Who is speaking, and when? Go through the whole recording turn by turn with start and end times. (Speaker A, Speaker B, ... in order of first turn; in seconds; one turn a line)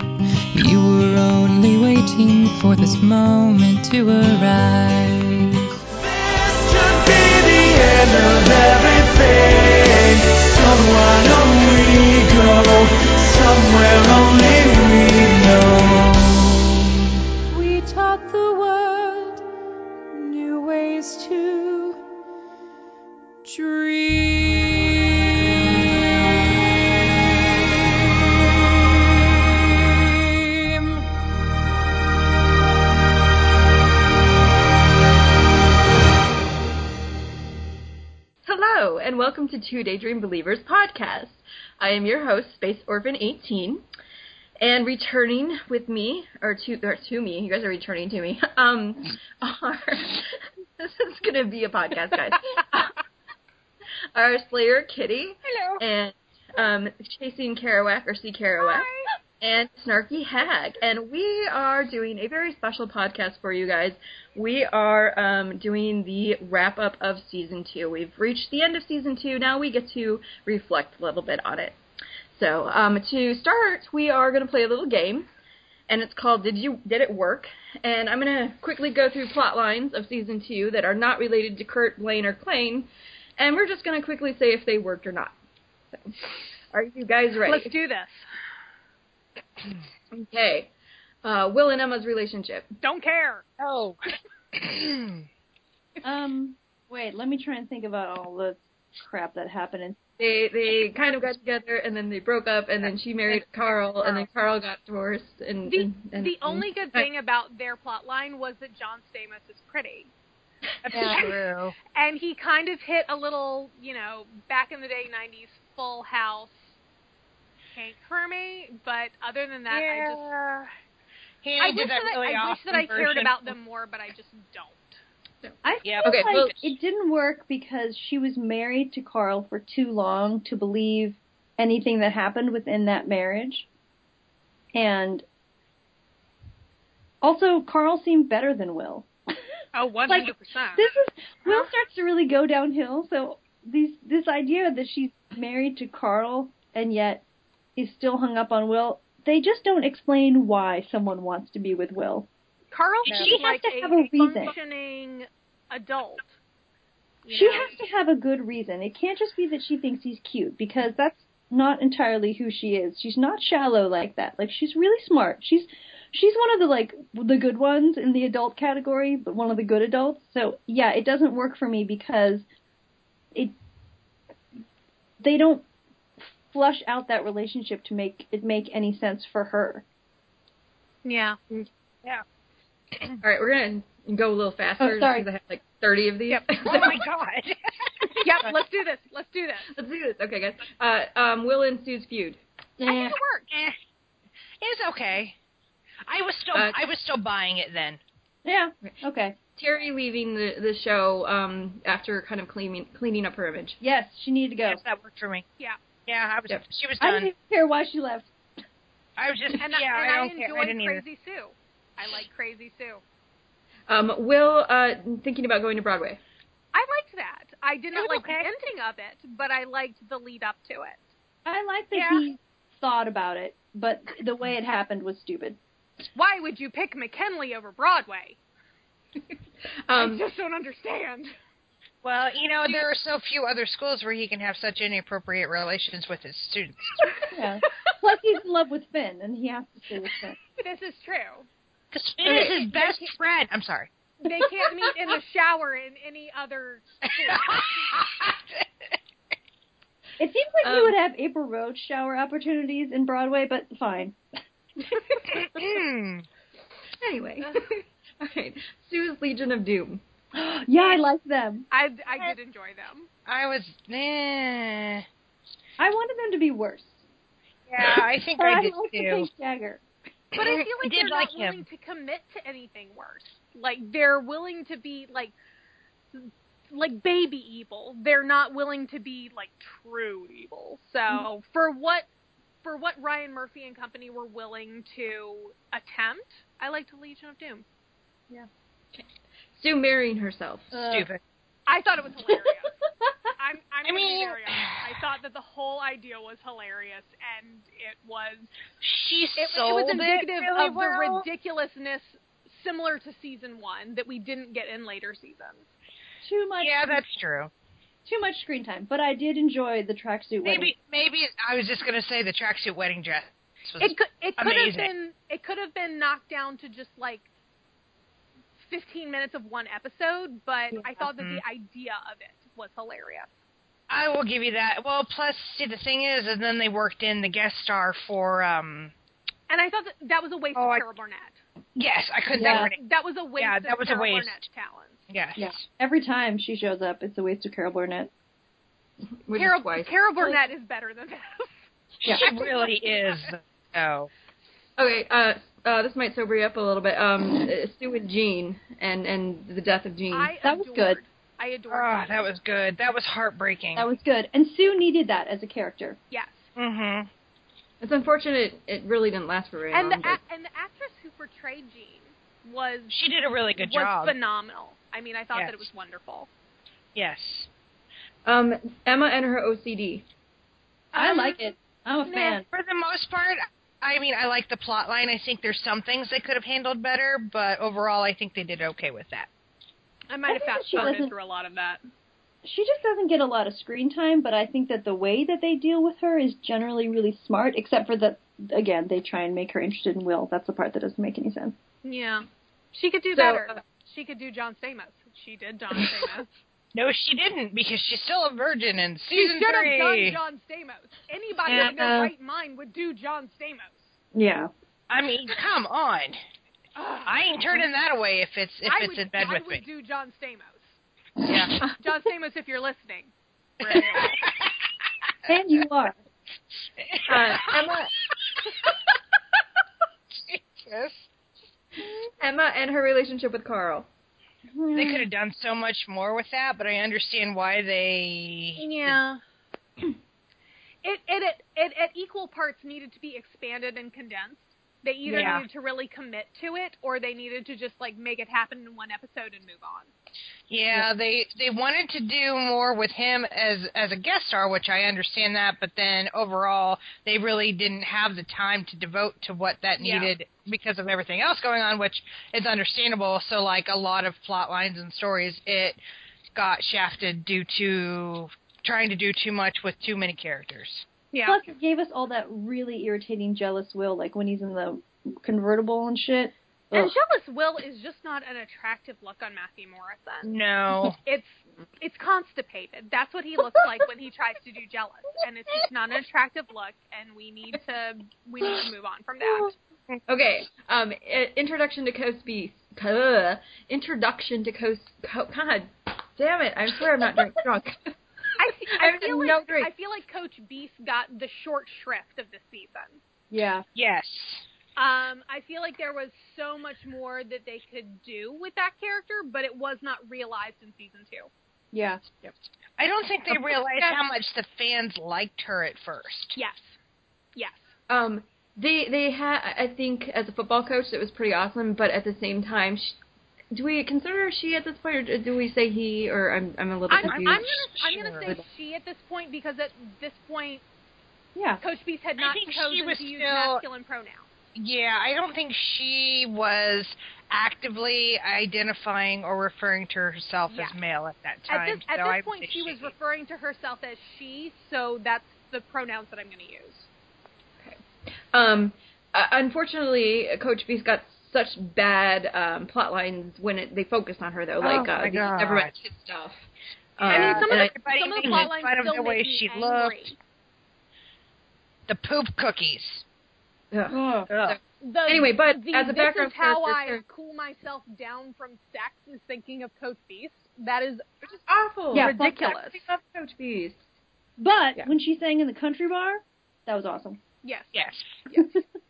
Speaker A: 0.5-5.7
Speaker B: 6.0-16.7
Speaker A: 17.5-19.4
Speaker A: 20.1-22.0
Speaker A: 23.4-25.2
Speaker A: 29.9-31.0
Speaker C: 38.5-43.9
Speaker C: 44.6-53.0
Speaker C: 54.1-71.8
Speaker D: 55.5-55.8
Speaker E: 58.6-59.1
Speaker C: 72.3-75.3
Speaker C: 75.9-85.3
Speaker C: 86.7-87.7
Speaker E: 87.5-88.2
Speaker C: 90.1-90.7
Speaker C: 91.2-92.7
Speaker E: 92.8-93.5
Speaker D: 93.6-94.0
Speaker D: 94.5-95.3
Speaker F: 96.0-100.0
Speaker C: 100.2-107.0
Speaker E: 105.7-110.1
Speaker D: 110.8-111.8
Speaker F: 110.9-111.2
Speaker E: 111.9-116.8
Speaker E: 117.8-120.3
Speaker D: 119.7-120.7
Speaker D: 121.4-123.6
Speaker E: 121.6-125.0
Speaker C: 125.5-126.5
Speaker F: 125.6-133.7
Speaker D: 125.8-126.1
Speaker F: 134.7-135.2
Speaker F: 137.2-139.1
Speaker E: 139.7-140.9
Speaker F: 140.1-147.2
Speaker E: 141.4-141.7
Speaker F: 147.8-152.3
Speaker E: 152.7-156.3
Speaker D: 153.1-153.4
Speaker F: 153.1-154.5
Speaker E: 157.2-157.8
Speaker F: 157.3-172.5
Speaker F: 175.2-175.7
Speaker F: 176.5-179.8
Speaker E: 181.1-181.4
Speaker C: 183.2-187.1
Speaker F: 184.8-185.3
Speaker D: 186.6-188.6
Speaker E: 188.2-189.7
Speaker C: 189.7-192.4
Speaker F: 192.8-193.2
Speaker E: 192.8-193.5
Speaker D: 194.6-195.4
Speaker D: 196.1-198.0
Speaker F: 198.4-199.4
Speaker C: 199.6-203.8
Speaker F: 203.8-204.8
Speaker D: 204.7-205.5
Speaker D: 206.1-207.3
Speaker F: 207.0-208.3
Speaker D: 209.2-211.0
Speaker E: 209.6-213.0
Speaker C: 213.9-216.2
Speaker E: 216.7-221.1
Speaker D: 217.9-218.5
Speaker F: 221.4-225.6
Speaker E: 226.2-228.4
Speaker C: 229.9-230.2
Speaker E: 229.9-231.3
Speaker D: 232.0-237.0
Speaker F: 237.3-240.4
Speaker E: 240.6-241.5
Speaker D: 241.9-243.9
Speaker C: 242.2-242.6
Speaker E: 242.3-243.0
Speaker E: 244.2-247.9
Speaker D: 247.1-248.7
Speaker F: 250.2-254.2
Speaker C: 250.6-251.0
Speaker D: 255.3-256.3
Speaker C: 257.0-260.0
Speaker F: 260.3-261.7
Speaker E: 261.7-263.1
Speaker D: 263.3-265.1
Speaker F: 265.8-267.0
Speaker D: 267.7-269.3
Speaker F: 267.8-269.8
Speaker E: 270.4-275.4
Speaker D: 270.4-271.6
Speaker E: 276.1-282.1
Speaker E: 282.6-287.6
Speaker C: 289.0-290.7
Speaker F: 290.7-291.1
Speaker D: 290.8-291.2
Speaker E: 291.7-292.7
Speaker E: 293.4-298.5
Speaker D: 293.9-294.9
Speaker D: 298.8-301.3
Speaker E: 299.4-305.7
Speaker F: 306.2-307.0
Speaker D: 306.6-307.5
Speaker F: 308.1-310.7
Speaker D: 310.4-314.9
Speaker E: 313.8-317.3
Speaker E: 318.6-323.4
Speaker F: 320.7-321.0
Speaker D: 321.1-321.4
Speaker D: 323.9-328.9
Speaker E: 329.5-331.4
Speaker D: 330.6-330.9
Speaker D: 331.8-332.8
Speaker F: 332.3-332.7
Speaker E: 332.4-335.1
Speaker D: 333.4-334.4
Speaker D: 335.1-335.6
Speaker F: 335.4-338.1
Speaker C: 339.3-340.3
Speaker E: 339.4-343.3
Speaker D: 342.1-344.1
Speaker C: 344.8-350.4
Speaker E: 350.1-352.4
Speaker F: 350.4-351.0
Speaker D: 351.7-353.9
Speaker F: 353.8-356.0
Speaker E: 356.1-356.5
Speaker D: 356.6-357.1
Speaker C: 357.8-360.2
Speaker E: 359.7-363.0
Speaker D: 362.9-364.2
Speaker E: 363.6-366.3
Speaker D: 365.3-365.6
Speaker D: 366.9-367.5
Speaker C: 368.2-370.1
Speaker E: 370.9-371.4
Speaker F: 371.0-372.5
Speaker E: 372.1-372.4
Speaker D: 372.5-379.3
Speaker E: 380.1-381.8
Speaker F: 380.3-381.1
Speaker F: 382.4-391.6
Speaker E: 391.8-396.3
Speaker C: 393.1-393.6
Speaker D: 396.7-400.2
Speaker E: 399.1-404.0
Speaker F: 401.5-402.1
Speaker F: 404.1-404.5
Speaker D: 404.9-406.2
Speaker E: 406.8-407.6
Speaker D: 407.1-409.6
Speaker E: 408.7-410.8
Speaker D: 411.2-411.6
Speaker E: 411.7-414.2
Speaker D: 413.7-414.6
Speaker F: 415.3-416.0
Speaker D: 416.8-417.9
Speaker C: 417.1-417.9
Speaker D: 420.1-421.1
Speaker C: 422.2-423.9
Speaker F: 424.5-425.1
Speaker D: 424.8-429.0
Speaker E: 428.6-429.2
Speaker E: 430.8-439.9
Speaker F: 435.1-435.4
Speaker D: 435.1-435.4
Speaker D: 440.5-455.8
Speaker E: 449.8-450.1
Speaker D: 456.3-460.9
Speaker E: 461.1-461.4
Speaker F: 461.2-466.9
Speaker E: 466.7-470.3
Speaker D: 470.2-471.0
Speaker E: 471.0-479.5
Speaker D: 479.2-480.0
Speaker C: 480.1-487.8
Speaker E: 488.4-493.0
Speaker C: 488.8-489.7
Speaker F: 493.3-493.7
Speaker D: 493.7-494.4
Speaker E: 494.8-501.3
Speaker F: 501.7-502.0
Speaker D: 502.8-506.4
Speaker E: 503.3-504.0
Speaker E: 506.4-506.8
Speaker E: 507.4-507.7
Speaker C: 507.9-513.0
Speaker C: 513.5-517.5
Speaker E: 516.9-520.6
Speaker D: 517.1-518.3
Speaker F: 521.4-521.6
Speaker E: 521.6-524.3
Speaker D: 522.2-523.6
Speaker D: 524.6-532.9
Speaker E: 530.5-530.8
Speaker E: 531.5-536.9
Speaker C: 538.3-547.7
Speaker D: 544.6-545.7
Speaker F: 544.6-544.9
Speaker D: 547.0-550.1
Speaker E: 547.1-550.2
Speaker D: 551.9-553.0
Speaker C: 553.7-557.0
Speaker F: 553.9-554.3
Speaker D: 554.3-554.6
Speaker E: 554.8-561.4
Speaker C: 561.5-563.8
Speaker F: 561.9-562.2
Speaker E: 561.9-562.8
Speaker F: 564.4-567.2
Speaker E: 567.4-568.6
Speaker D: 567.7-568.1